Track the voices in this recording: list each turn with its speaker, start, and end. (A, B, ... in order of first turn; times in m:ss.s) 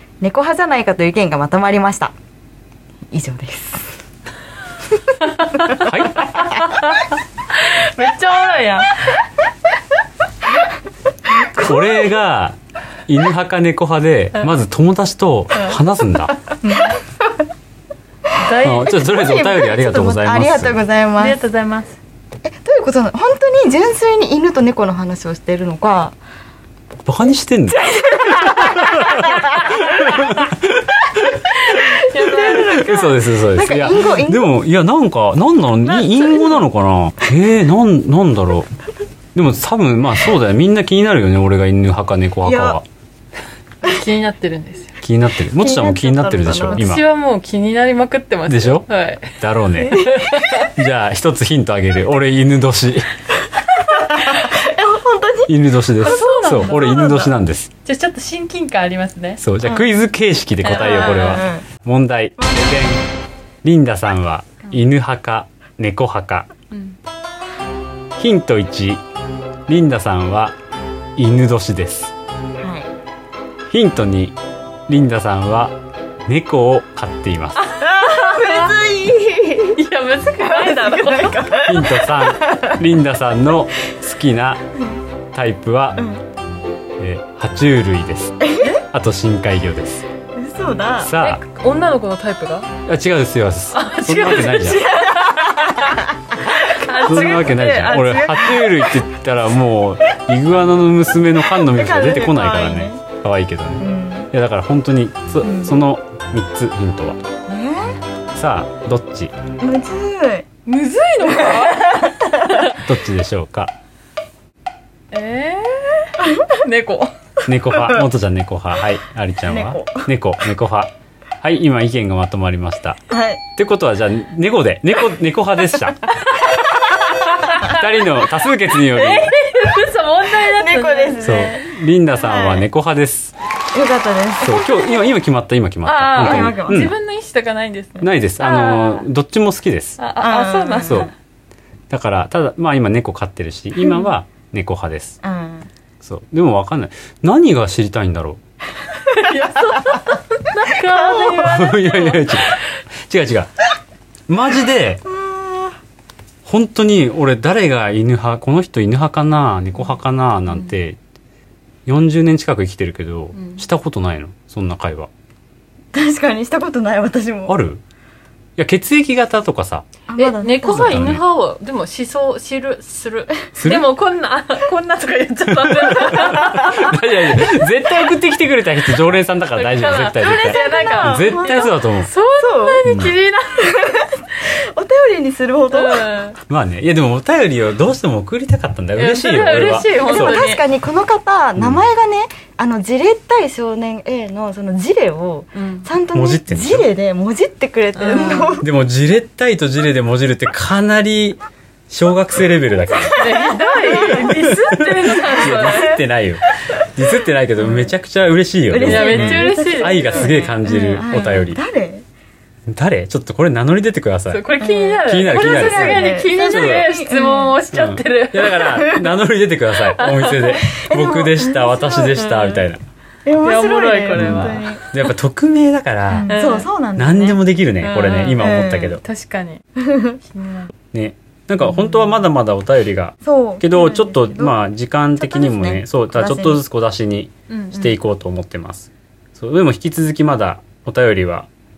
0:00.2-0:02.1 A
0:03.1-0:03.9 A
0:05.8-0:06.4 B
0:06.4-0:09.2 C
0:11.3-0:12.0 A
0:11.5-0:16.4 B
0:15.5-0:15.8 C
0:16.6-0:17.0 C
0:16.6-0:17.0 A
0:18.4-0:19.0 C
0:18.6-0:20.8 B
0:18.8-0:21.4 A
0:21.2-0:22.0 C
0:22.4-0:26.2 A
0:27.0-0:31.4 B
0:27.8-0:30.2 A
0:31.5-0:33.1 C
0:31.7-0:34.5 A
0:32.3-0:38.7 B
0:35.9-0:36.6 A
0:39.3-0:42.8 B
0:42.4-0:42.8 A
0:43.8-0:44.9 C
0:45.0-0:47.0 B
0:45.6-0:46.9 A
0:46.7-0:49.3 C
0:48.5-0:53.1 B
0:49.8-0:50.3 A
0:49.9-0:50.7 C
0:53.9-0:57.3 A
0:55.5-0:57.7 B
0:56.0-0:57.3 C
0:57.8-0:59.4 C
0:59.4-1:03.0 B
1:00.6-1:01.5 C
1:00.7-1:01.6 A
1:03.6-1:06.5 B
1:06.7-1:07.0 C
1:08.2-1:09.0 B
1:09.7-1:10.6 B
1:11.2-1:12.1 B
1:12.6-1:12.9 A
1:13.7-1:14.4 B
1:14.9-1:15.7 B
1:16.2-1:17.6 B
1:17.6-1:18.8 C
1:17.8-1:19.8 A
1:19.8-1:21.5 C
1:20.4-1:22.8 A
1:21.5-1:24.6 B
1:25.3-1:26.0 B
1:27.0-1:30.0 B
1:28.4-1:28.8 A
1:30.4-1:31.1 A
1:31.0-1:31.4 B
1:31.2-1:32.7 C
1:32.8-1:34.9 B
1:33.7-1:38.7 C
1:34.9-1:37.0 A
1:37.0-1:47.2 B
1:41.6-1:43.0 A
1:43.8-1:44.3 A
1:45.4-1:45.7 A
1:47.5-1:48.0 A
1:48.3-1:49.3 B
1:49.6-1:50.5 A
1:50.6-1:52.7 C
1:51.2-1:52.6 A
1:52.8-1:53.7 B
1:55.1-1:57.1 C
1:57.4-2:00.9 B
1:57.7-1:58.0 A
1:59.4-2:00.1 A
2:01.4-2:03.0 B
2:03.1-2:03.4 A
2:03.6-2:06.2 B
2:06.3-2:07.8 C
2:07.2-2:09.3 B
2:08.8-2:11.6 C
2:10.3-2:12.7 A
2:11.2-2:13.3 B
2:13.7-2:14.9 A
2:14.4-2:16.9 B
2:15.8-2:19.0 C
2:16.1-2:16.9 A
2:18.0-2:20.0 B
2:20.0-2:21.1 C
2:20.2-2:21.1 A
2:20.8-2:21.1 B
2:21.9-2:25.2 B
2:25.2-2:25.7 A
2:26.0-2:28.4 B
2:29.0-2:32.4 C
2:30.7-2:31.6 A
2:31.4-2:32.6 B
2:33.1-2:33.5 B
2:34.3-2:35.0 B
2:35.0-2:35.8 A
2:36.4-2:41.0 B
2:41.8-2:45.1 B
2:45.9-2:47.6 A
2:47.5-2:47.8 B
2:48.6-2:49.9 B
2:50.1-2:51.1 A
2:50.2-2:57.0 C
2:50.6-2:51.2 B
2:53.6-2:53.9 B
2:55.6-3:02.1 B
2:59.6-3:04.1 C
3:00.2-3:01.7 A
3:02.4-3:02.8 A
3:02.8-3:03.1 B
3:03.6-3:06.2 A
3:05.7-3:06.4 C
3:06.5-3:10.4 B
3:09.0-3:10.6 C
3:10.0-3:18.7 A
3:11.6-3:11.8 B
3:15.5-3:15.9 C
3:16.1-3:16.9 B
3:18.0-3:18.6 C
3:18.6-3:23.4 B
3:23.1-3:26.0 C
3:23.1-3:24.5 A
3:23.9-3:31.6 B
3:25.2-3:26.0 A
3:27.6-3:27.9 A
3:28.7-3:32.0 A
3:28.8-3:31.0 C
3:32.7-3:34.4 B
3:34.3-3:38.9 C
3:34.6-3:37.6 A
3:35.0-3:36.9 B
3:37.7-3:42.8 B
3:38.7-3:39.0 A
3:39.9-3:40.6 C
3:40.7-3:42.2 A
3:42.1-3:42.6 C
3:43.2-3:44.8 A
3:43.4-3:44.8 C
3:44.1-3:46.4 B
3:46.1-3:47.4 A
3:46.2-3:46.7 C
3:47.0-3:49.0 B
3:47.8-3:49.6 C
3:48.4-3:49.0 A
3:49.8-3:50.2 A
3:50.3-3:50.7 C
3:50.9-4:01.5 B
3:53.2-3:54.6 A
3:55.2-3:56.6 A
3:57.5-3:57.9 C